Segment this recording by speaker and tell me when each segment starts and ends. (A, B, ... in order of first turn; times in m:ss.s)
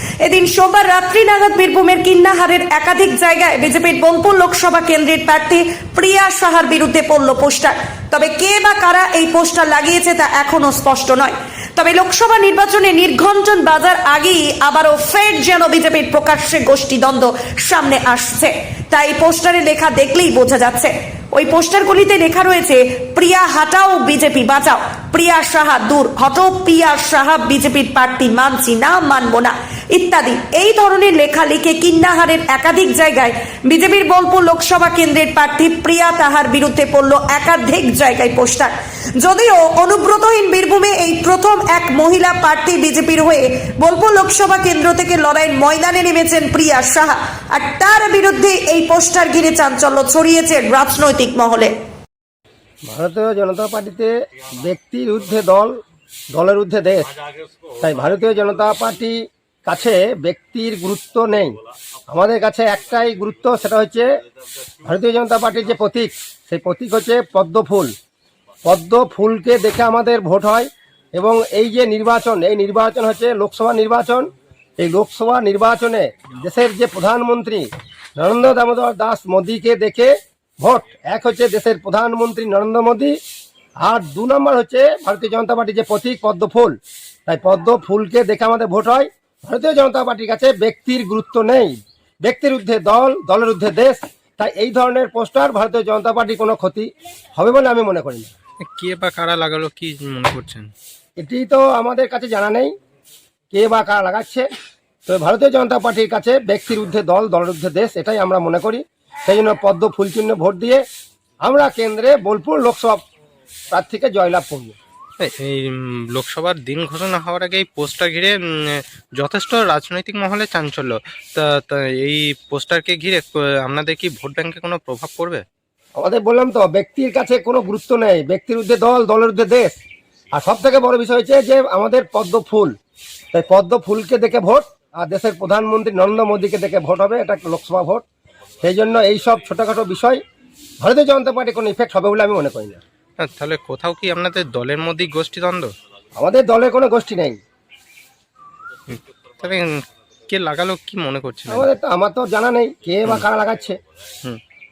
0:00.2-0:51.8 A
0:52.8-0:55.7 B
0:56.3-0:57.1 B
0:57.8-1:04.2 B
1:04.8-1:07.9 B
1:08.6-1:23.2 B
1:23.8-1:26.7 B
1:27.3-1:38.3 B
1:38.7-1:40.7 C
1:41.2-1:42.7 B
1:43.5-1:44.5 B
1:45.0-1:50.8 B
1:51.4-1:53.0 B
1:53.7-1:54.8 B
1:55.2-2:05.4 C
2:06.0-2:09.8 B
2:10.3-2:12.7 B
2:13.3-2:18.0 B
2:18.6-2:20.2 B
2:20.8-2:22.8 B
2:23.2-2:25.7 C
2:26.2-2:27.4 B
2:28.9-2:31.7 C
2:31.5-2:33.8 B